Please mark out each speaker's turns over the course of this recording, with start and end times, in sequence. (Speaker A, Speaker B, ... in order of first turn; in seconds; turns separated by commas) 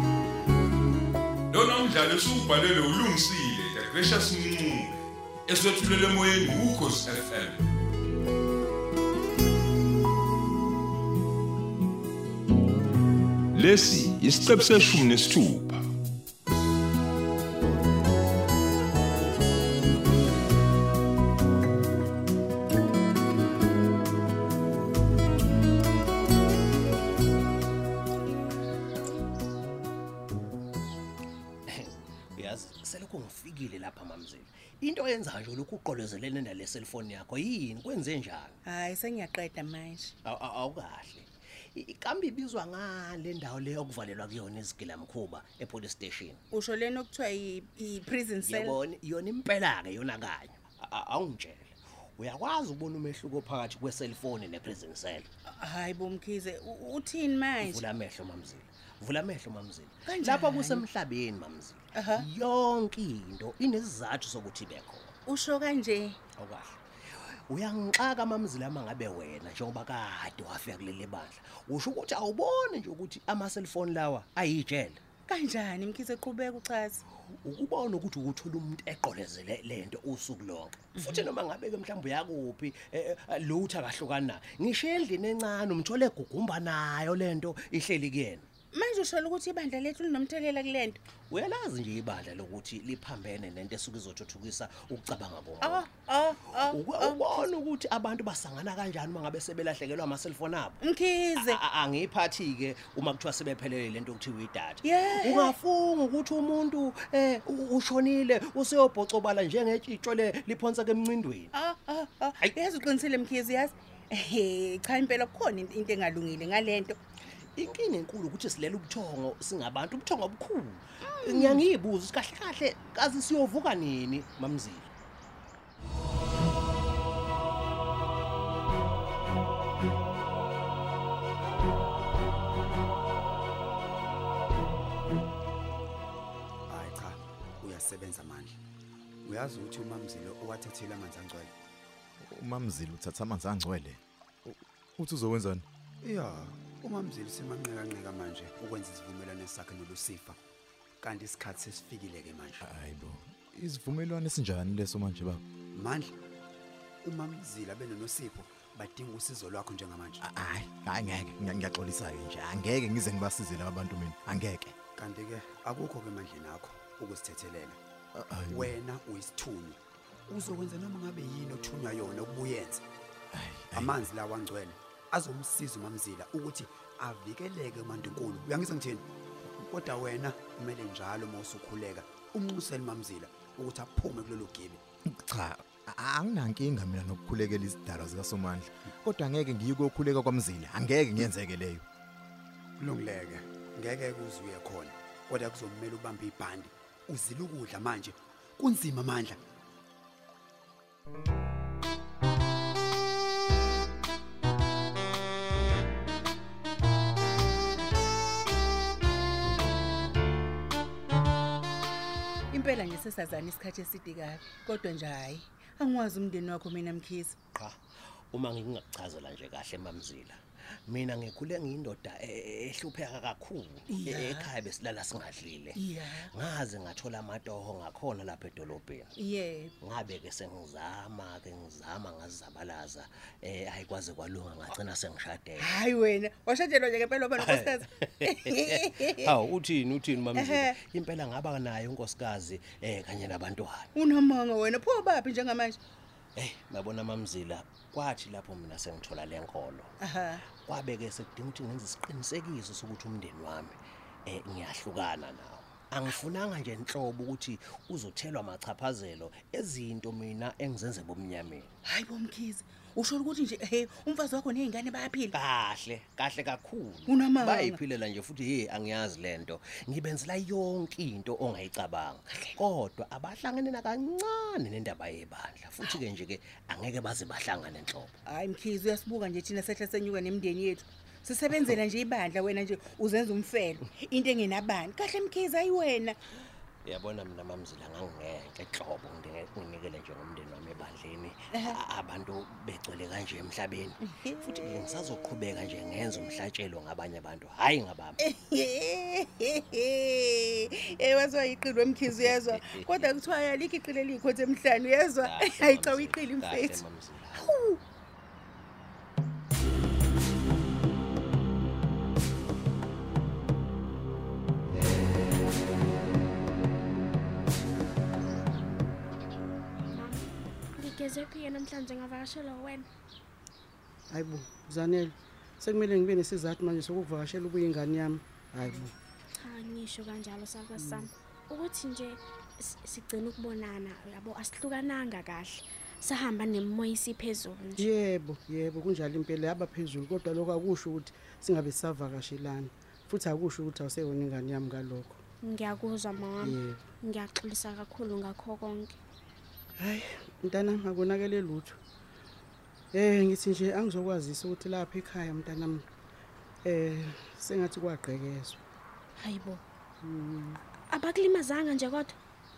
Speaker A: 1.5-5.0, Speaker A: 5.5-7.6, Speaker A: 13.5-15.8, Speaker B: 31.7-38.6, Speaker C: 38.7-40.1, Speaker B: 40.2-46.4, Speaker C: 46.5-48.8, Speaker B: 48.4-55.3, Speaker C: 55.5-57.9, Speaker B: 57.6-65.2, Speaker C: 60.1-60.9, Speaker C: 62.0-62.3, Speaker C: 65.3-66.2, Speaker B: 66.4-66.8, Speaker B: 67.5-75.0, Speaker C: 75.3-77.0, Speaker B: 77.4-88.5, Speaker C: 81.0-81.3, Speaker C: 88.7-91.0, Speaker B: 91.3-100.8, Speaker C: 95.6-97.5, Speaker C: 100.8-101.6, Speaker B: 101.3-111.5, Speaker C: 104.8-105.6, Speaker C: 111.5-117.0, Speaker B: 117.6-124.9, Speaker C: 121.0-121.7, Speaker D: 136.7-138.6, Speaker D: 139.2-141.5, Speaker E: 142.2-145.7, Speaker D: 146.0-150.4, Speaker D: 151.0-152.7, Speaker E: 152.6-155.4, Speaker D: 155.7-156.1, Speaker D: 157.0-160.2, Speaker E: 160.2-164.8, Speaker D: 165.0-167.8, Speaker E: 168.1-168.7, Speaker D: 168.5-172.8, Speaker E: 173.3-174.1, Speaker D: 173.7-179.1, Speaker D: 179.6-184.8, Speaker E: 185.1-191.8, Speaker D: 192.8-199.4, Speaker C: 212.5-217.4, Speaker B: 218.3-229.1, Speaker C: 223.9-224.5, Speaker C: 225.8-226.3, Speaker C: 229.2-229.7, Speaker B: 229.8-235.8, Speaker C: 235.6-239.3, Speaker B: 237.4-243.9, Speaker C: 240.3-240.8, Speaker C: 244.0-245.8, Speaker B: 246.4-249.9, Speaker C: 250.0-250.4, Speaker B: 250.6-261.7, Speaker C: 261.9-265.3, Speaker B: 265.3-278.1, Speaker C: 267.1-267.8, Speaker C: 278.3-286.2, Speaker B: 286.9-298.2, Speaker C: 294.1-294.5, Speaker C: 298.2-306.8, Speaker B: 302.1-303.2, Speaker B: 305.2-307.6, Speaker C: 307.3-307.8, Speaker F: 319.9-320.2, Speaker F: 320.8-322.9, Speaker G: 324.1-328.9, Speaker F: 329.4-337.9, Speaker G: 330.8-331.1, Speaker G: 337.8-345.2, Speaker F: 345.4-349.0, Speaker G: 346.4-346.9, Speaker G: 349.8-351.8, Speaker G: 352.9-355.9, Speaker G: 356.6-358.6, Speaker F: 359.2-359.6, Speaker G: 360.0-360.6, Speaker F: 360.9-362.2